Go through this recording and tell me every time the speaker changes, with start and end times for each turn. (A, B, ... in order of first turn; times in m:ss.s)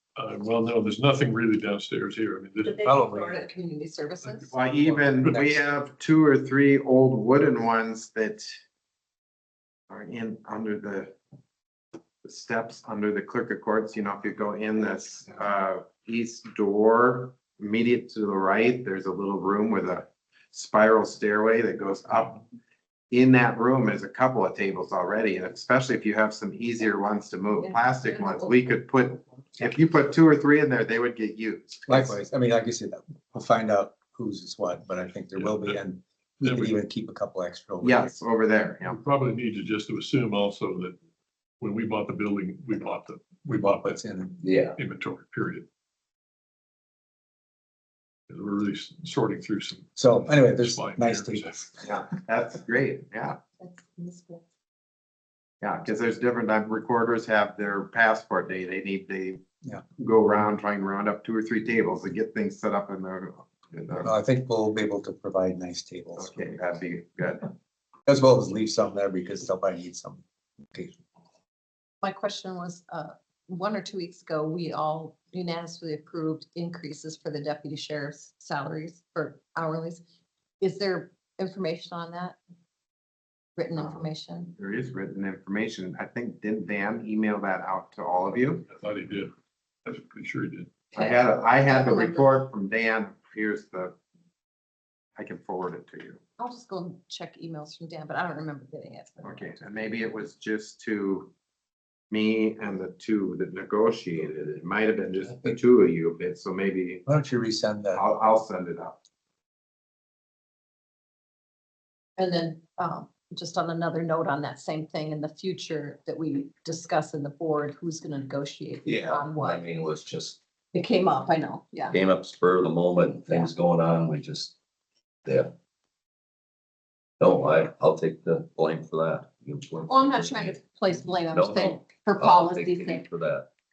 0:00.2-0:02.8 A
0:02.6-0:04.5 B
0:02.8-0:03.4 C
0:04.5-0:08.5 D
0:04.6-0:05.6 C
0:09.9-0:11.1 D
0:12.2-0:22.4 D
0:23.1-0:32.2 D
0:27.6-0:28.6 B
0:31.9-0:38.1 C
0:35.3-0:35.8 A
0:36.4-0:36.8 A
0:37.8-0:39.0 D
0:38.8-0:41.0 A
0:41.6-0:44.0 A
0:43.5-0:44.4 C
0:44.4-0:44.8 E
0:44.8-0:45.7 A
0:48.3-0:51.7 A
0:50.0-0:51.8 C
0:51.8-0:53.4 D
0:53.6-0:54.4 B
0:55.6-0:59.4 D
1:00.0-1:04.1 D
1:04.0-1:06.5 C
1:06.2-1:07.5 D
1:08.1-1:11.0 C
1:12.0-1:20.0 B
1:20.6-1:22.4 B
1:23.6-1:24.5 B
1:24.6-1:28.6 D
1:28.6-1:29.3 A
1:29.8-1:30.7 A
1:30.9-1:33.9 D
1:31.0-1:32.4 B
1:35.2-1:36.2 D
1:36.4-1:39.6 B
1:39.2-1:41.3 D
1:42.1-1:47.0 D
1:47.0-1:48.0 C
1:47.9-1:49.0 D
1:52.2-1:59.6 B
1:58.8-2:00.4 E
2:00.7-2:02.0 B
2:01.9-2:04.5 E
2:05.2-2:05.5 E
2:07.2-2:10.6 E
2:09.9-2:13.1 B
2:11.3-2:13.5 E